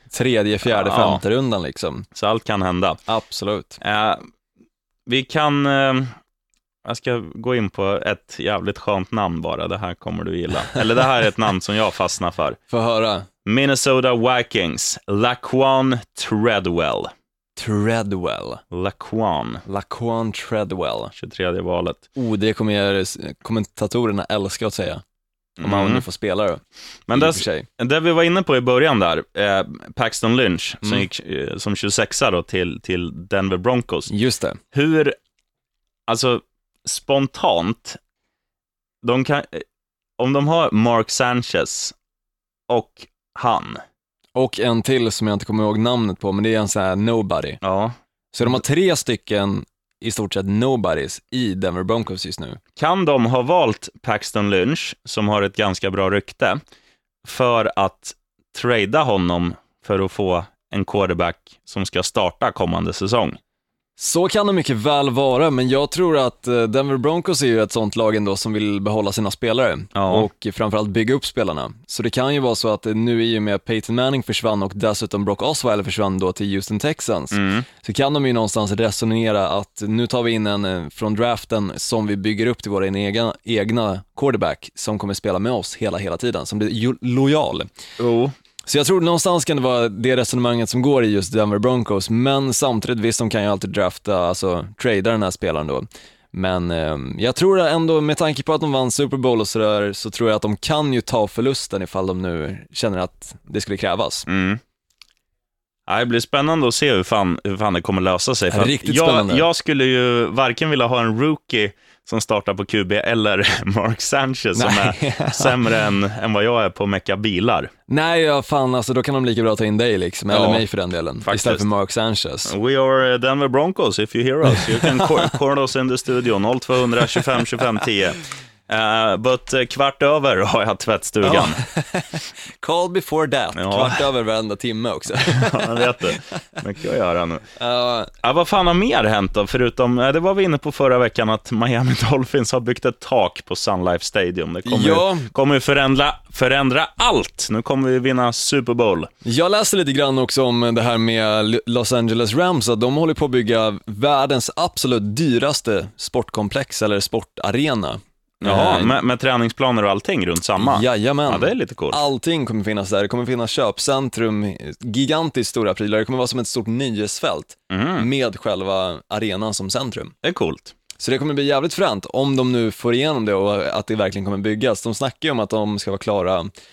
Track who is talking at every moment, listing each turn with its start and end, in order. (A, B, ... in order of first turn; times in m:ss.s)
0:00.1-0:02.1 A
0:00.6-0:01.2 B
0:02.2-0:03.0 B
0:03.1-0:03.8 A
0:03.8-0:04.2 B
0:05.1-0:06.2 B
0:06.8-0:12.6 B
0:12.7-0:13.3 A
0:13.5-0:17.1 B
0:17.6-0:18.6 A
0:18.7-0:19.6 B
0:19.6-0:21.1 A
0:21.1-0:22.0 B
0:22.2-0:25.0 A
0:25.6-0:26.0 B
0:25.6-0:27.7 A
0:27.1-0:34.1 B
0:34.1-0:34.6 A
0:34.7-0:35.2 B
0:36.1-0:38.0 B
0:39.0-0:39.6 B
0:40.2-0:42.0 B
0:42.7-0:43.8 B
0:44.4-0:47.6 A
0:47.6-0:48.0 B
0:48.3-0:52.6 A
0:52.8-0:56.6 B
0:57.2-1:03.4 B
1:04.0-1:27.7 A
1:09.9-1:10.3 B
1:17.3-1:17.7 B
1:28.0-1:28.3 B
1:28.7-1:44.3 A
1:44.3-1:44.6 B
1:45.9-1:57.7 B
1:48.5-1:49.4 A
1:54.6-1:55.6 A
1:57.9-2:02.5 A
2:00.3-2:00.6 B
2:01.2-2:01.6 B
2:02.4-2:11.6 B
2:04.6-2:05.3 A
2:11.2-2:16.2 A
2:13.5-2:14.0 B
2:15.3-2:17.5 B
2:17.6-2:18.1 A
2:18.2-2:29.1 B
2:24.6-2:25.3 A
2:29.2-2:39.0 A
2:38.4-2:42.0 B
2:40.6-2:50.1 A
2:47.7-2:48.1 B
2:50.2-2:50.7 B
2:51.0-2:56.5 A